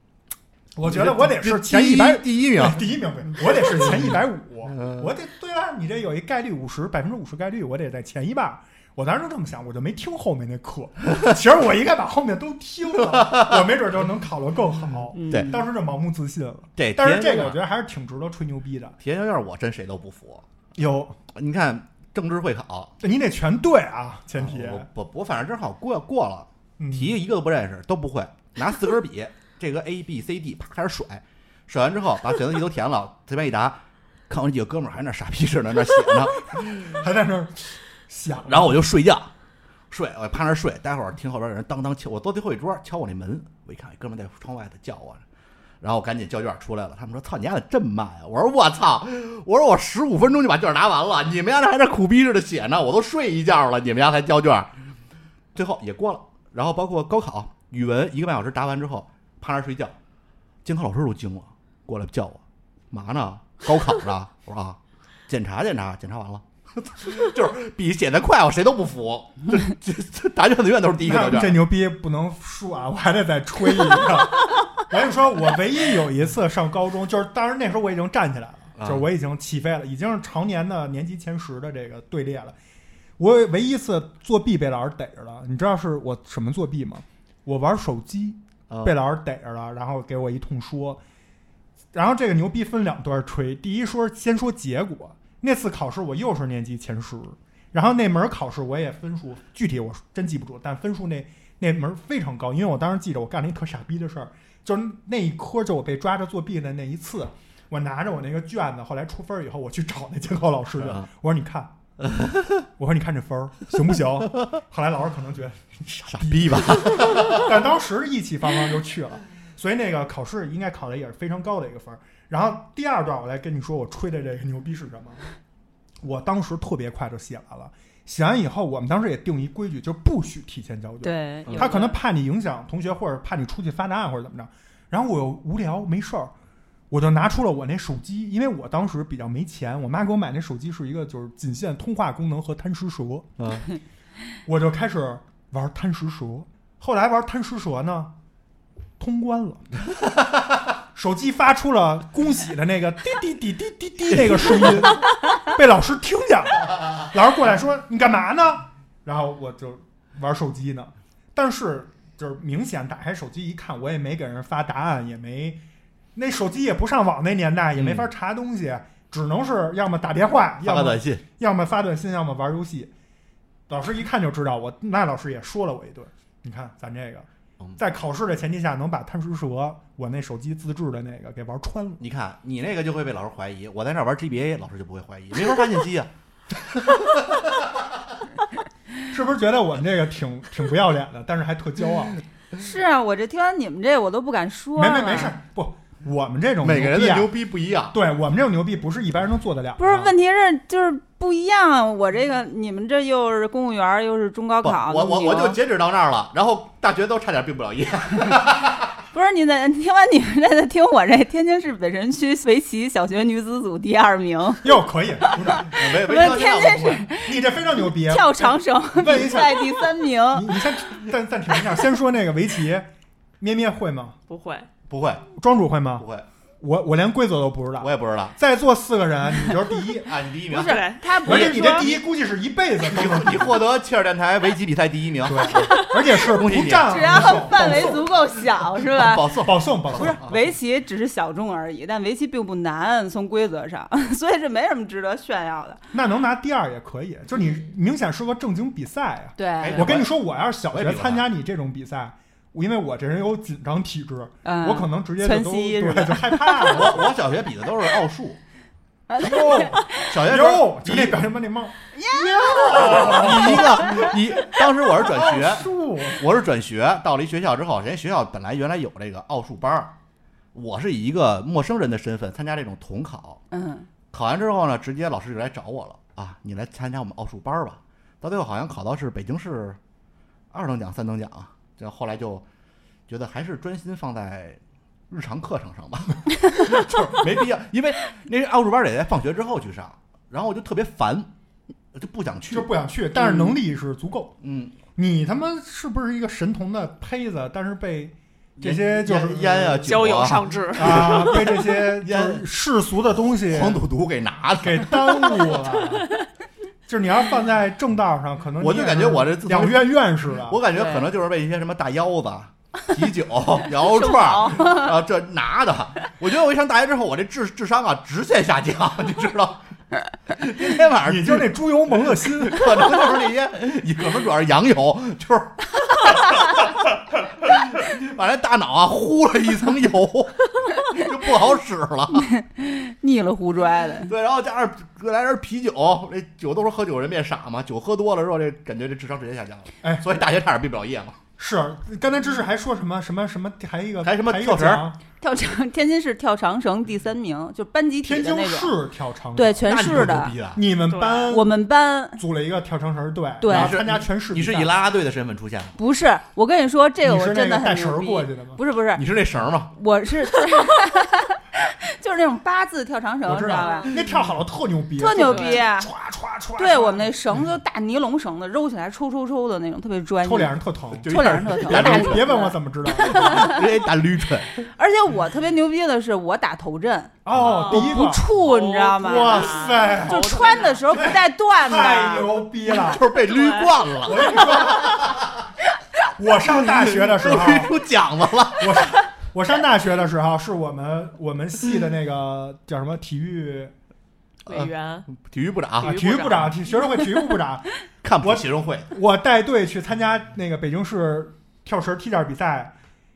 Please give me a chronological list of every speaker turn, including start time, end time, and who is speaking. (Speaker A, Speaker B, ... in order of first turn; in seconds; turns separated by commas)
Speaker A: 0.8-19.0, Speaker B: 0.8-4.2, Speaker B: 13.1-13.6, Speaker C: 15.1-15.6, Speaker B: 15.3-15.6, Speaker B: 16.8-17.6, Speaker B: 19.0-20.4, Speaker A: 20.8-21.2, Speaker B: 21.3-22.9, Speaker A: 23.0-24.9, Speaker B: 24.4-37.0, Speaker A: 26.8-27.2, Speaker A: 36.5-38.8, Speaker B: 38.4-39.3, Speaker B: 39.9-45.2, Speaker B: 45.8-54.7, Speaker B: 55.5-59.9, Speaker B: 60.6-71.6, Speaker A: 71.0-82.5, Speaker B: 78.8-79.1, Speaker A: 83.2-91.0, Speaker B: 88.7-88.9, Speaker A: 91.9-111.7, Speaker B: 110.8-111.1, Speaker B: 112.0-112.6, Speaker A: 112.8-125.3, Speaker B: 116.1-117.5, Speaker A: 126.0-136.3, Speaker C: 131.0-132.0, Speaker B: 131.4-131.7, Speaker A: 136.9-143.3, Speaker B: 143.4-143.7, Speaker A: 144.4-148.1, Speaker A: 149.0-149.7, Speaker A: 150.9-165.6, Speaker A: 166.1-172.9, Speaker B: 167.8-168.1, Speaker B: 170.6-171.2, Speaker A: 173.7-182.0, Speaker B: 182.0-187.8, Speaker A: 189.1-192.2, Speaker C: 192.6-195.3, Speaker A: 194.8-197.3, Speaker B: 196.6-197.9, Speaker A: 197.9-200.1, Speaker C: 199.8-205.6, Speaker B: 204.6-208.9, Speaker C: 209.1-214.8, Speaker A: 214.6-215.7, Speaker B: 215.5-217.1, Speaker C: 215.5-220.6, Speaker A: 217.2-222.9, Speaker A: 223.4-224.2, Speaker D: 224.3-224.7, Speaker B: 224.9-225.2, Speaker A: 225.4-226.1, Speaker B: 226.0-226.3, Speaker A: 226.6-230.1, Speaker B: 227.8-228.3, Speaker B: 230.0-232.0, Speaker C: 230.5-232.0, Speaker D: 230.5-231.7, Speaker A: 231.2-233.6, Speaker B: 232.8-240.5, Speaker A: 235.2-238.1, Speaker C: 236.9-245.8, Speaker A: 239.4-240.2, Speaker A: 245.9-257.0, Speaker C: 249.4-249.9, Speaker B: 249.6-250.1, Speaker B: 250.7-251.3, Speaker C: 254.4-256.9, Speaker B: 256.6-258.4, Speaker C: 259.1-259.9, Speaker A: 259.2-264.1, Speaker B: 260.0-261.2, Speaker C: 261.9-264.0, Speaker B: 262.6-269.9, Speaker A: 265.0-266.2, Speaker B: 270.5-273.4, Speaker C: 273.5-273.9, Speaker B: 274.1-279.8, Speaker B: 280.5-282.4, Speaker B: 283.1-291.3, Speaker B: 291.9-292.7, Speaker A: 292.5-294.4, Speaker B: 294.4-294.8, Speaker A: 294.9-303.8, Speaker B: 298.6-302.4, Speaker D: 299.8-301.5, Speaker B: 303.3-305.5, Speaker A: 304.6-306.1, Speaker A: 306.9-310.6, Speaker B: 308.6-319.6, Speaker C: 310.7-311.1, Speaker C: 313.8-314.9, Speaker B: 320.3-332.3, Speaker A: 321.0-322.9, Speaker C: 332.1-334.1, Speaker B: 334.0-341.2, Speaker A: 341.4-345.0, Speaker B: 344.0-344.9, Speaker C: 345.2-348.7, Speaker A: 348.0-351.5, Speaker C: 349.3-350.3, Speaker B: 349.6-350.6, Speaker D: 350.9-351.4, Speaker C: 351.3-352.2, Speaker A: 352.1-354.8, Speaker C: 353.4-353.8, Speaker B: 353.5-355.8, Speaker C: 355.8-359.1, Speaker A: 357.0-358.6, Speaker B: 358.9-359.7, Speaker C: 359.7-364.1, Speaker A: 363.2-367.2, Speaker D: 363.6-363.9, Speaker C: 365.0-365.9, Speaker D: 365.1-365.6, Speaker C: 366.6-373.6, Speaker A: 370.2-373.5, Speaker B: 371.0-372.4, Speaker B: 373.0-374.6, Speaker C: 374.8-382.4, Speaker A: 377.2-378.3, Speaker B: 377.3-377.7, Speaker D: 377.4-381.1, Speaker A: 378.9-383.1, Speaker B: 382.6-385.4, Speaker D: 383.2-383.9, Speaker A: 384.0-385.2, Speaker A: 386.2-387.8, Speaker B: 386.5-388.9, Speaker A: 388.6-393.7, Speaker D: 394.4-395.1, Speaker B: 394.4-396.0, Speaker D: 395.8-396.6, Speaker A: 395.8-402.7, Speaker B: 398.0-398.9